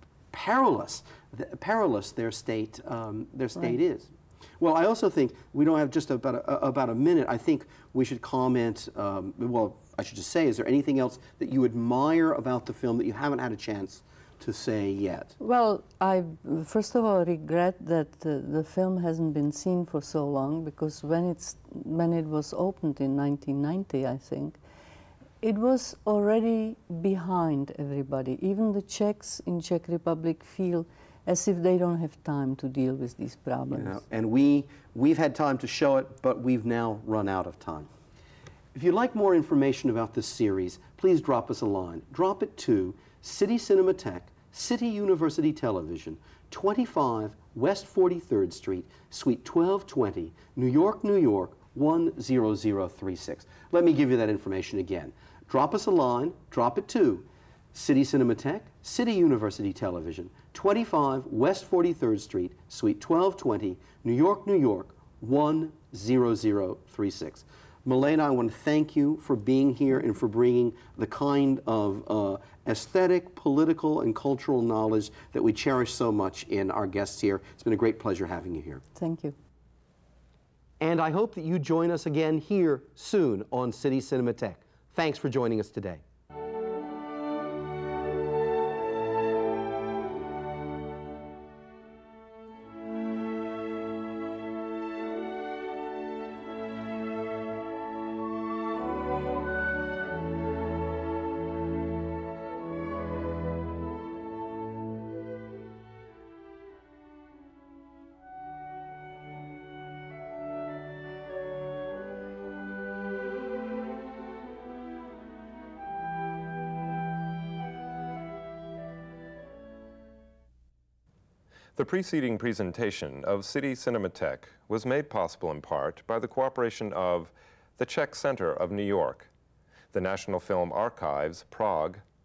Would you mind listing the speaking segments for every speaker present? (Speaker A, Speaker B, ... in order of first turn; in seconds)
Speaker A: 0.3-15.4, 33.7-37.9, 38.7-78.8, 80.8-86.0
Speaker B: 15.4-24.6, 25.4-34.0, 79.0-79.3
Speaker C: 121.8-129.3, 129.9-132.0